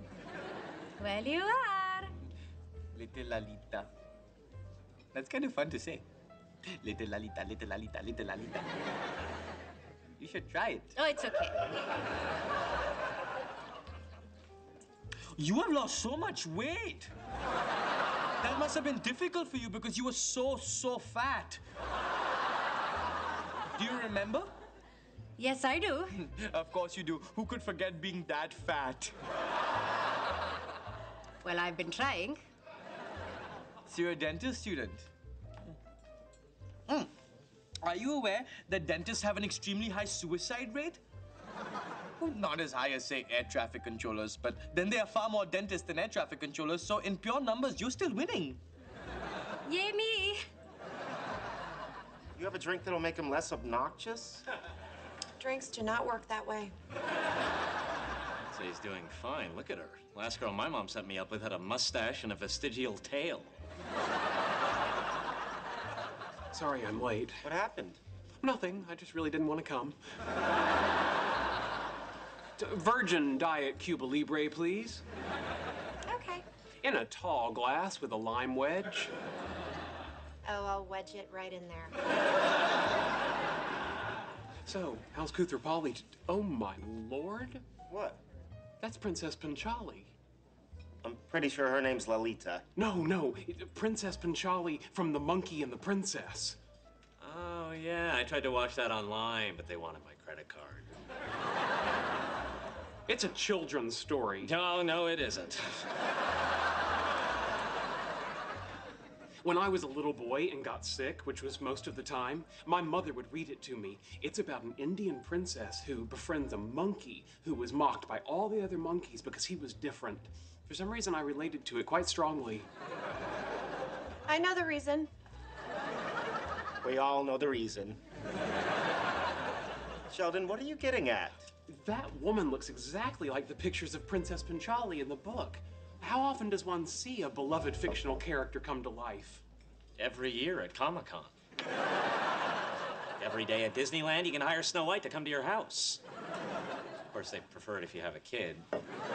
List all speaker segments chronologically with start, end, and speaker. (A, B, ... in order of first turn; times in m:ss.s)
0:01.0-0:02.1 A
0:02.9-0:03.9 B
0:05.1-0:06.0 B
0:06.7-0:08.7 B
0:10.2-0:10.9 B
0:11.0-0:11.6 A
0:15.4-0:17.1 B
0:18.4-0:21.6 B
0:23.7-0:24.5 B
0:25.4-0:26.2 A
0:26.2-0:29.2 B
0:31.4-0:32.4 A
0:33.9-0:35.1 B
0:37.8-0:41.0 B
0:42.2-0:48.6 B
0:49.7-0:50.4 A
0:52.4-0:54.4 C
0:55.4-0:56.8 D
0:58.5-1:03.5 E
1:06.5-1:07.4 F
1:07.4-1:08.0 C
1:08.4-1:10.0 F
1:12.6-1:15.0 F
1:16.1-1:16.5 D
1:16.8-1:19.1 F
1:20.4-1:21.9 D
1:24.6-1:27.6 F
1:27.9-1:28.2 C
1:28.8-1:30.1 F
1:31.0-1:32.7 C
1:32.8-1:36.6 F
1:37.2-1:40.9 E
1:43.1-1:44.5 F
1:44.4-1:45.9 E
1:49.4-2:02.7 F
2:04.3-2:05.1 D
2:06.8-2:08.0 C
2:10.1-2:11.5 C
2:11.7-2:19.4 F
2:20.0-2:21.3 E
2:23.2-2:26.0 E
2:27.1-2:28.7 E